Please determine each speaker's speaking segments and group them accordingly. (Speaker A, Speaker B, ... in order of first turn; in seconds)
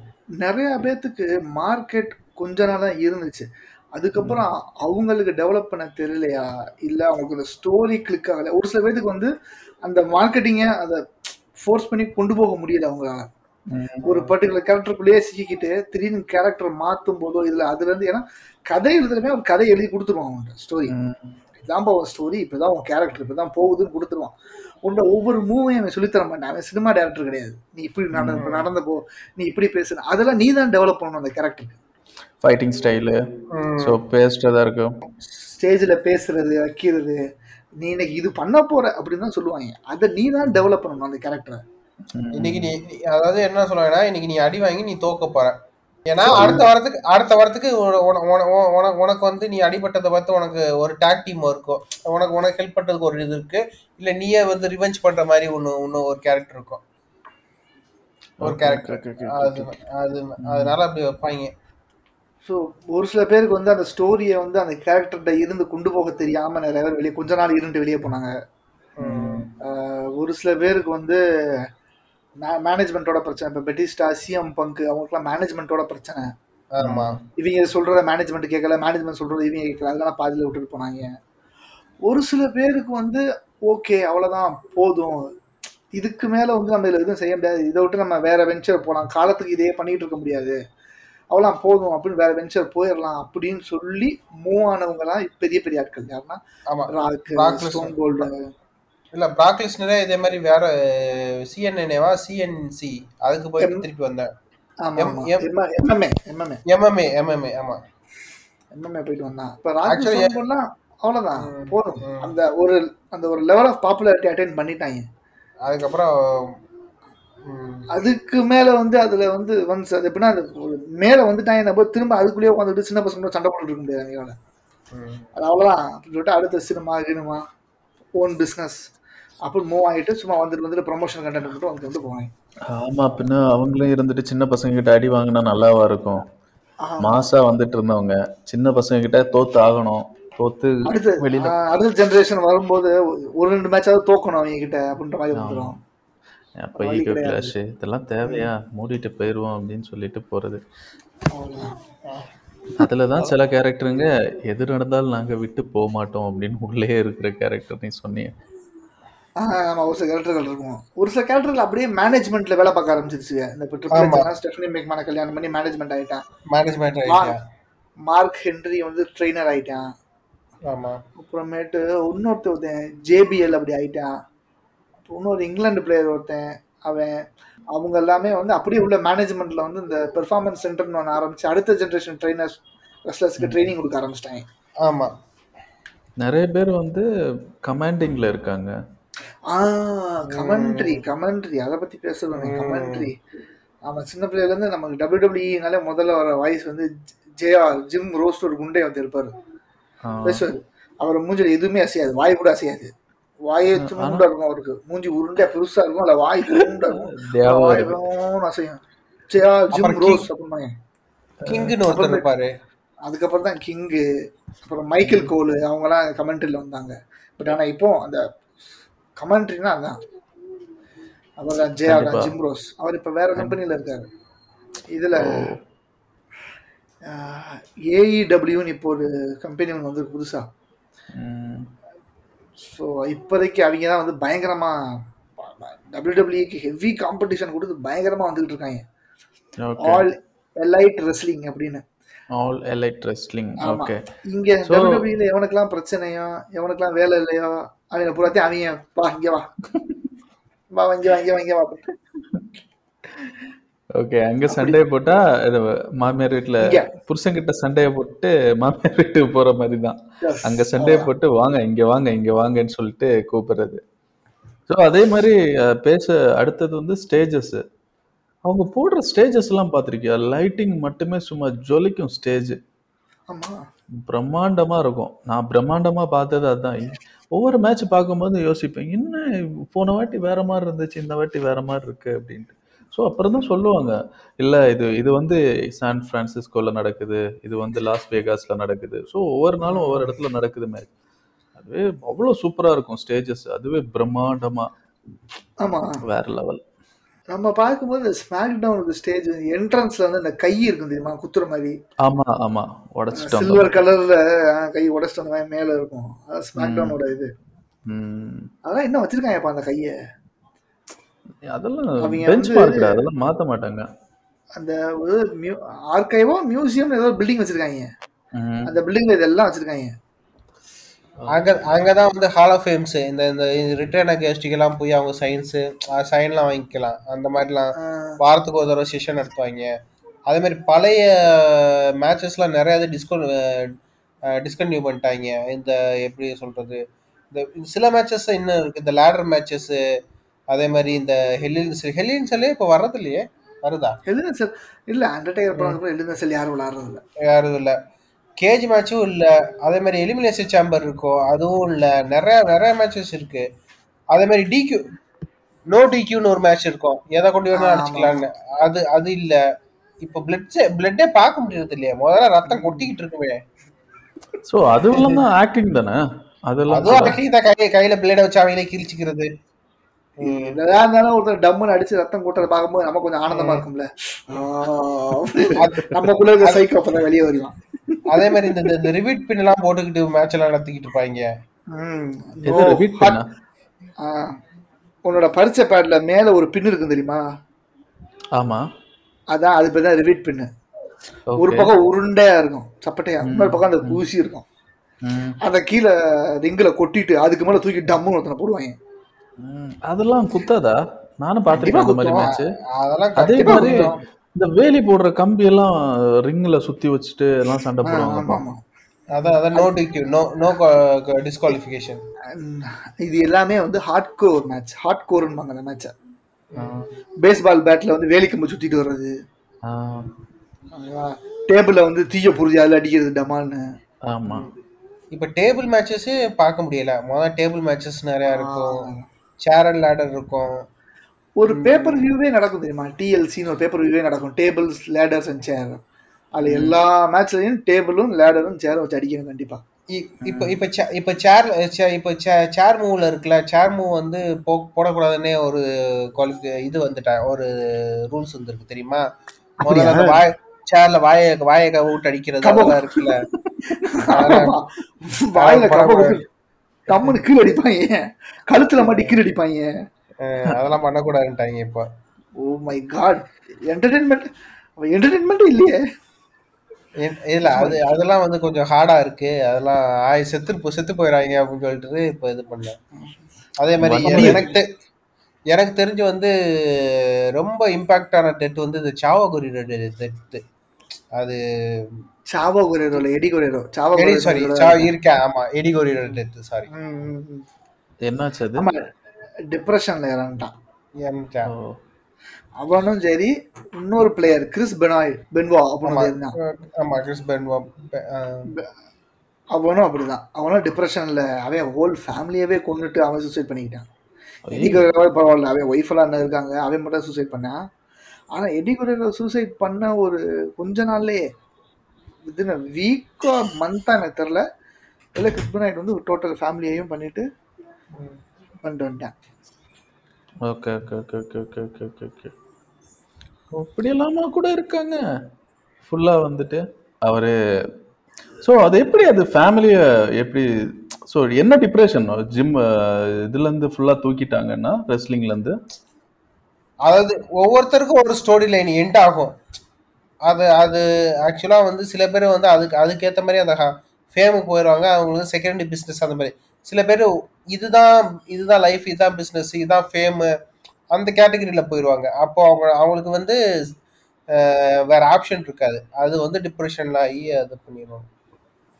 Speaker A: 0.4-9.3, 9.8-11.0, 11.6-13.3, 14.0-20.9, 21.6-31.8, 35.4-37.2, 37.8-41.6, 46.3-46.6, 62.4-68.3, 69.6-71.2, 72.4-76.3, 77.4-81.1, 82.0-85.3, 85.9-90.6, 91.3-98.5, 104.8-106.6, 108.7-115.0, 117.9-124.3, 125.3-127.4, 128.2-128.8, 129.4-132.3, 136.8-137.2, 140.8-145.7, 146.8-147.5, 151.3-151.8, 159.4-166.2, 167.1-167.3, 168.1-169.8, 171.2-174.1, 175.1-177.2, 177.7-184.4, 189.5-193.1, 193.8-196.9, 197.4-199.3, 200.2-202.9, 203.4-210.7, 211.9-212.2, 213.0-214.0, 214.6-218.2, 219.2-220.0, 221.4-224.1, 224.9-225.5, 227.1-230.4, 232.6-234.8, 235.4-238.8, 239.8-241.8, 243.6-249.5, 250.7-251.9, 254.5-254.8, 256.6-256.9, 260.2-261.1, 273.3-273.6, 289.6-290.1, 295.6-296.0, 297.3-301.7, 303.1-307.3, 308.6-309.9, 312.0-313.0, 314.5-317.9, 318.6-319.9, 327.8-328.1, 344.1-347.0, 357.5-358.2, 362.5-362.9, 364.9-365.2, 370.2-378.6, 381.7-383.2, 384.0-384.4, 385.0-387.2, 389.3-390.5, 391.4-394.4, 395.4-398.7, 401.5-402.3, 403.4-404.0, 407.8-408.6, 412.3-415.9, 417.2-419.1, 420.7-423.6, 428.3-429.0, 431.4-435.8, 436.3-439.6, 449.6-450.2, 452.4-452.8, 453.7-456.2, 456.9-458.0, 458.5-459.7, 462.4-464.3, 464.8-465.8, 467.4-467.8, 474.1-474.5, 482.3-484.9, 486.7-487.4, 488.6-488.8, 489.5-490.5, 492.6-496.3, 499.5-503.9, 504.6-507.6, 508.3-511.2, 512.2-514.4, 515.1-517.2, 518.6-519.1
Speaker B: 4.2-4.4, 13.7-14.0, 20.9-21.4, 28.1-28.4, 32.4-33.2, 33.8-35.0, 42.1-42.7, 46.3-46.6, 58.4-59.7, 60.4-60.7, 69.0-69.5, 76.8-77.2, 132.7-136.2, 137.0-141.6, 145.3-145.8, 146.6-150.6, 152.8-158.3, 183.4-183.7, 186.2-187.1, 187.7-188.7, 200.1-200.4, 203.8-204.2, 206.5-208.0, 211.4-211.7, 215.0-215.3, 221.8-222.3, 225.2-225.6, 231.2-231.7, 239.6-240.1, 242.4-244.0, 244.7-245.1, 254.0-263.8, 264.7-267.6, 268.5-272.6, 274.0-290.9, 291.6-294.7, 296.0-296.6, 302.0-303.8, 306.6-306.9, 307.9-308.5, 311.5-313.9, 318.3-318.7, 321.2-321.7, 364.5-367.2, 382.4-383.3, 388.4-388.6, 391.3-391.7, 393.2-394.0, 395.0-395.4, 399.4-402.5, 403.2-405.7, 406.2-408.4, 416.6-416.9, 419.7-420.1, 424.1-424.5, 473.8-474.4, 488.0-488.7, 491.5-491.8, 504.5-504.9, 520.5-522.3, 523.5-525.0, 525.8-527.3, 528.4-535.5
Speaker C: 14.1-14.3, 28.3-28.6, 33.5-34.0, 42.4-45.6, 46.1-56.8, 58.4-61.5, 69.0-69.4, 76.8-77.2, 96.7-98.3, 99.1-104.3, 105.0-105.4, 106.7-107.8, 109.9-110.3, 111.4-112.3, 115.7-116.5, 117.5-117.8, 124.9-125.3, 163.9-164.2, 166.5-167.4, 170.7-171.0, 184.8-185.1, 190.3-191.0, 192.3-193.1, 209.7-210.2, 211.5-212.5, 321.3-329.7, 330.3-333.3, 334.4-336.8, 337.3-339.8, 340.5-344.0, 347.3-347.7, 348.4-353.4, 354.1-354.8, 355.7-359.4, 360.0-363.4, 366.7-369.3, 370.2-370.5, 373.3-373.6, 375.6-375.9, 378.1-381.2, 402.2-403.9, 409.1-412.0, 425.1-428.8, 429.4-430.6, 431.5-432.0, 436.5-436.7, 439.9-445.6, 446.1-447.5, 448.1-449.0, 449.6-453.2, 454.1-454.5, 455.4-456.1, 458.8-459.2, 460.2-461.9, 467.0-472.8, 473.6-474.6, 475.5-480.4, 483.9-486.7, 491.0-491.5, 495.9-498.5, 536.9-539.3, 540.3-550.3, 550.9-553.4, 554.4-558.0